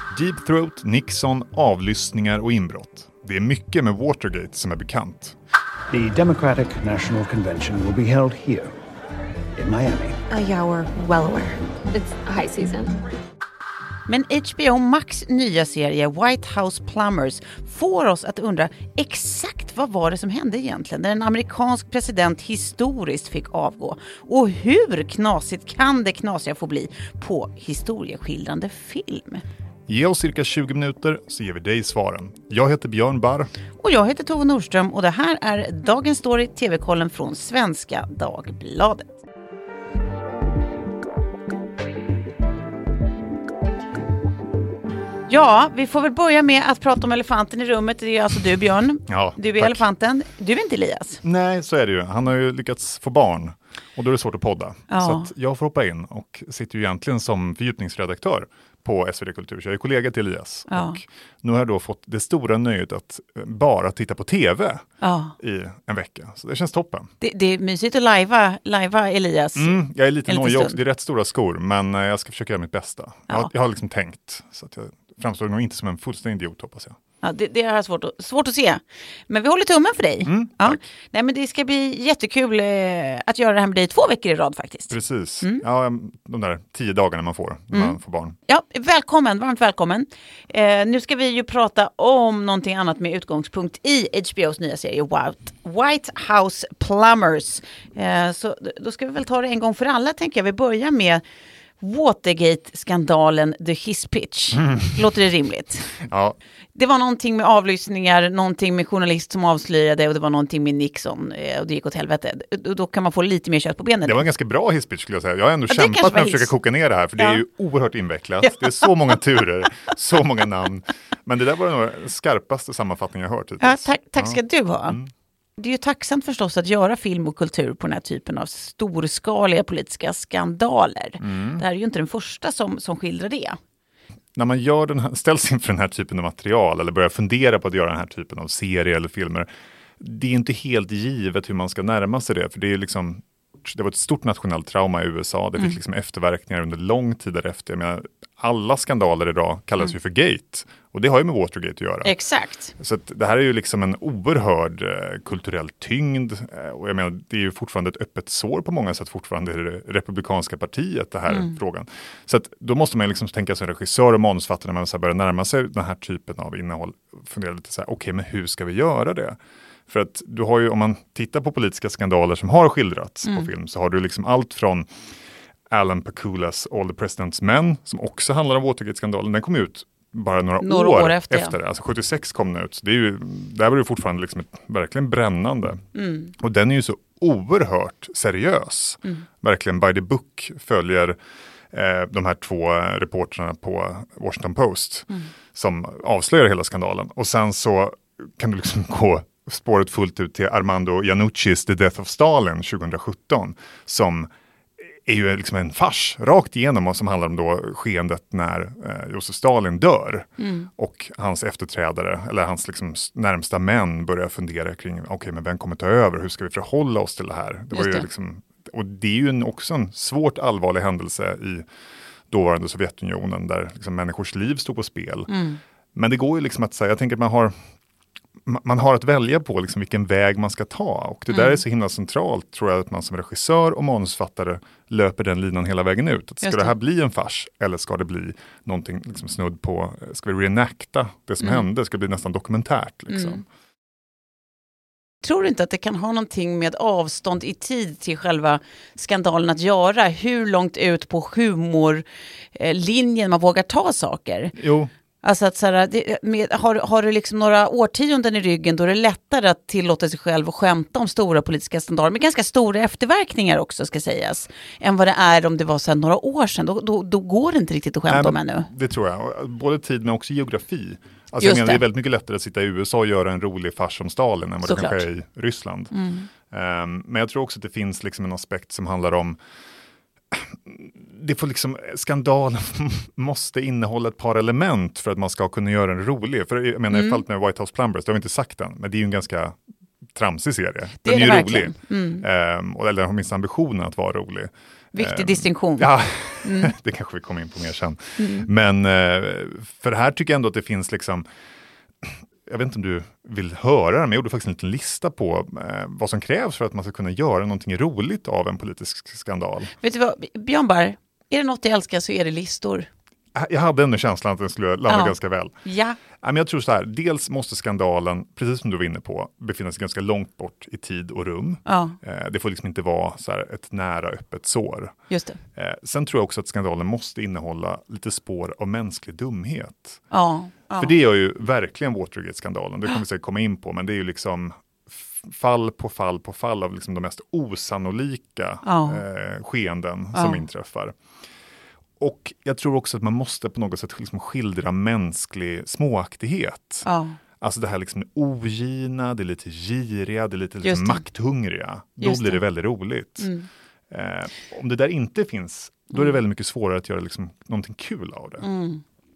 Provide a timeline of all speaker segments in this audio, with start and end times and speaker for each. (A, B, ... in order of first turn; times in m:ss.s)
0:00.1-0:05.4 A
0:05.9-0:08.7 B
0:09.6-0:10.2 B
0:10.3-0:12.9 C
0:14.1-0:29.4 D
0:29.9-0:33.5 A
0:33.8-0:39.1 D
0:45.3-0:51.2 D
0:49.1-0:49.8 A
0:51.2-1:04.8 A
0:54.9-0:55.3 D
1:00.7-1:01.0 D
1:05.0-1:05.4 D
1:05.4-1:07.1 A
1:07.2-1:10.8 D
1:09.6-1:17.0 A
1:17.2-1:25.6 D
1:20.3-1:20.8 A
1:24.9-1:28.4 A
1:27.7-1:28.0 D
1:28.5-1:41.2 D
1:41.8-1:45.9 D
1:44.6-1:45.0 A
1:46.0-1:46.4 A
1:46.8-1:54.2 D
1:54.0-2:05.1 A
1:55.7-1:56.5 D
1:57.2-1:57.4 D
1:58.4-1:58.9 D
2:03.6-2:05.0 D
2:05.6-2:13.6 D
2:11.2-2:11.6 A
2:14.4-2:19.5 A
2:20.0-2:32.1 A
2:32.0-2:32.7 D
2:32.8-2:54.9 A
2:41.3-2:41.5 D
2:55.7-3:05.8 A
3:00.6-3:01.6 D
3:06.0-3:06.3 D
3:06.4-3:11.2 A
3:11.7-3:24.3 A
3:24.8-3:41.7 A
3:30.4-3:30.7 D
3:37.7-3:38.1 D
3:42.3-3:45.3 A
3:45.3-3:45.6 D
3:46.0-3:47.5 A
3:48.5-4:03.4 A
3:51.3-3:51.6 D
3:56.4-3:56.7 D
4:03.1-4:03.4 D
4:05.2-4:12.0 D
4:12.6-4:14.6 D
4:14.6-4:14.9 A
4:15.2-4:28.7 D
4:28.1-4:35.9 A
4:31.4-4:31.8 D
4:34.6-4:35.0 D
4:35.9-4:36.3 D
4:36.5-4:39.4 A
4:40.3-4:49.6 A
4:46.9-4:47.2 D
4:50.2-5:01.3 A
4:51.0-4:52.3 D
4:54.9-4:55.9 D
4:56.4-4:56.7 D
4:58.2-4:58.5 D
5:02.0-5:09.7 A
5:09.8-5:12.9 D
5:13.4-5:15.6 A
5:14.9-5:16.0 D
5:16.2-5:24.9 A
5:21.7-5:22.0 D
5:25.1-5:25.4 D
5:25.6-5:30.0 A
5:30.1-5:30.9 D
5:30.8-5:41.0 A
5:38.6-5:39.0 D
5:40.1-5:40.4 D
5:42.0-5:46.8 A
5:46.8-5:47.2 D
5:47.4-5:53.3 A
5:50.6-5:51.0 D
5:52.0-5:52.4 D
5:53.2-5:53.5 D
5:53.9-5:58.4 A
5:58.4-5:58.8 D